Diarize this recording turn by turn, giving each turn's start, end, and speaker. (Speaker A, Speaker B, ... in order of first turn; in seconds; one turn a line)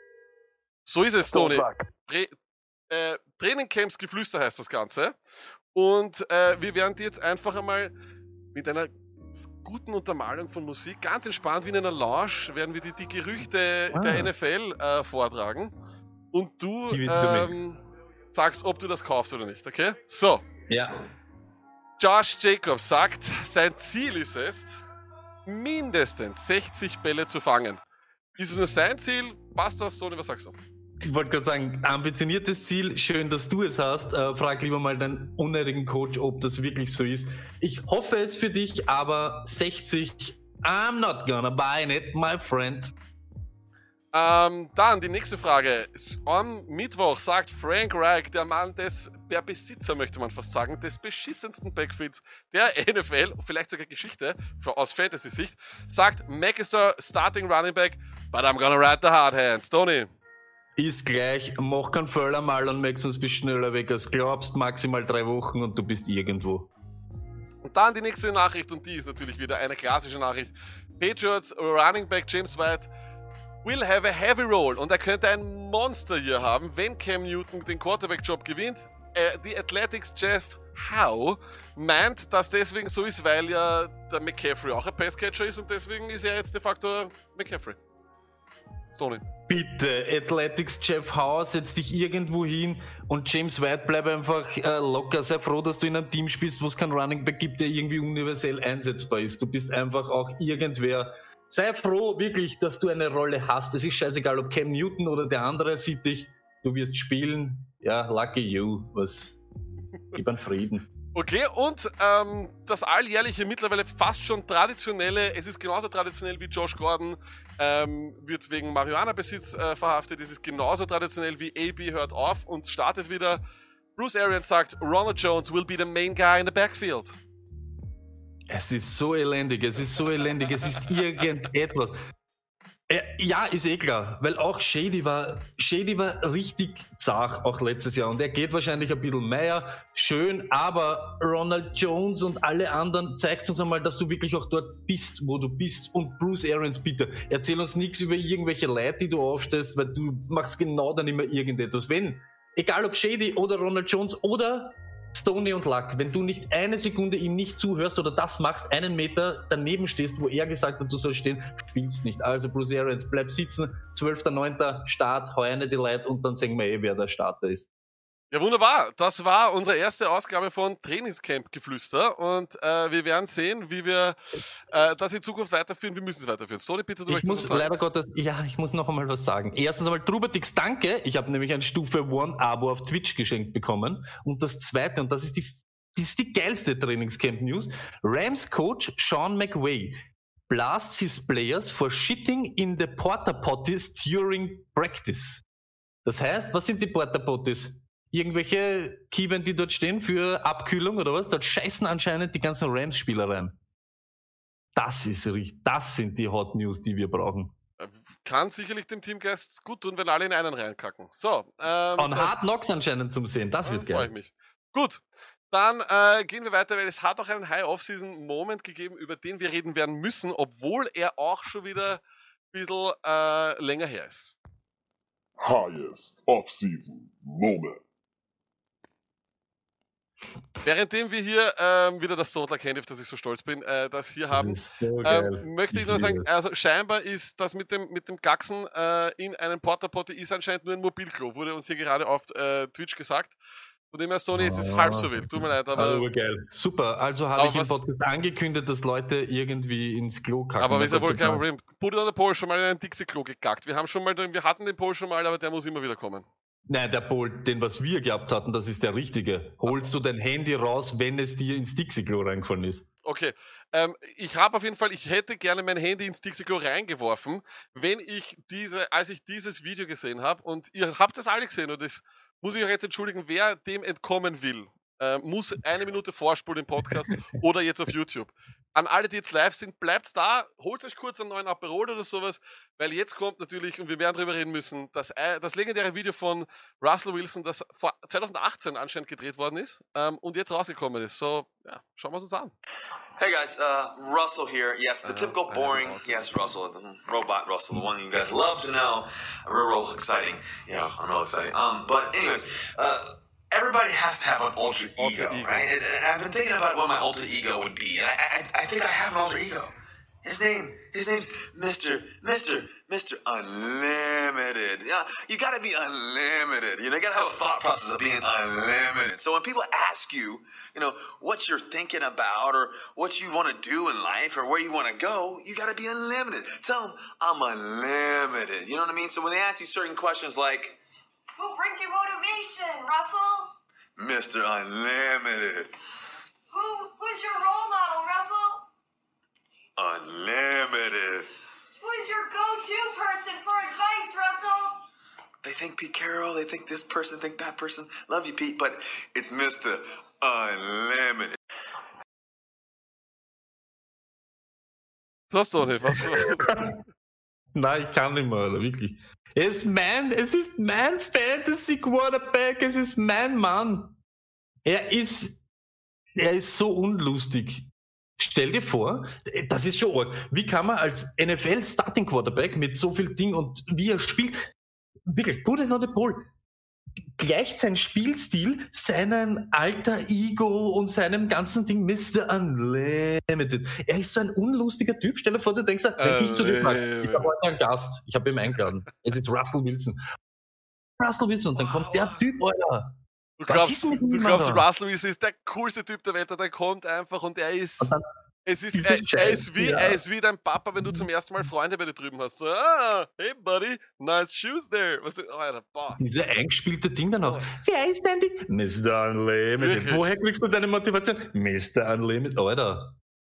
Speaker A: 0.8-2.3
Speaker A: 2.9-5.2
Speaker A: 5.7-7.9
Speaker A: 8.5-15.7
Speaker B: 13.9-14.3
Speaker A: 16.3-17.8
Speaker B: 16.9-17.5
Speaker A: 18.3-20.4
Speaker B: 20.7-21.0
Speaker A: 22.0-24.7
Speaker A: 25.4-27.8
Speaker A: 28.4-30.6
Speaker B: 31.0-42.9
Speaker A: 44.1-60.1
Speaker B: 60.8-66.7
Speaker A: 67.6-72.9
Speaker A: 73.6-87.8
Speaker A: 89.0-89.2
Speaker B: 89.5-109.4
Speaker B: 110.1-110.9
Speaker A: 111.1-123.4
Speaker A: 124.0-127.2
Speaker B: 128.5-131.9
Speaker B: 132.9-167.7
Speaker A: 168.3-174.2
Speaker A: 174.7-177.7
Speaker B: 177.1-195.4
Speaker B: 196.0-203.6
Speaker B: 204.7-207.5
Speaker A: 207.8-212.3
Speaker B: 212.0-214.1
Speaker A: 213.6-224.3
Speaker C: 225.4-227.8
Speaker A: 230.6-243.3
Speaker B: 234.3-236.3
Speaker A: 243.9-246.1
Speaker B: 244.3-251.4
Speaker A: 247.3-247.8
Speaker A: 250.6-256.2
Speaker B: 256.7-262.9
Speaker A: 263.0-292.5
Speaker D: 293.2-309.7
Speaker A: 295.0-296.3
Speaker A: 304.9-305.7
Speaker D: 310.2-330.8
Speaker E: 331.4-333.5
Speaker D: 334.0-335.7
Speaker E: 336.5-338.7
Speaker D: 339.8-341.3
Speaker E: 341.8-344.8
Speaker D: 345.4-351.4
Speaker A: 355.3-356.8
Speaker B: 356.4-356.7
Speaker B: 357.5-364.0
Speaker B: 364.6-365.4
Speaker B: 366.1-367.6
Speaker B: 368.2-374.4
Speaker B: 375.1-376.3
Speaker B: 377.1-390.0
Speaker A: 386.0-387.3
Speaker B: 391.0-393.0
Speaker A: 391.6-392.2
Speaker A: 393.4-397.9
Speaker B: 393.5-394.6
Speaker A: 398.4-406.0
Speaker B: 398.7-400.0
Speaker B: 405.9-412.9
Speaker A: 407.2-407.5
Speaker A: 409.6-410.1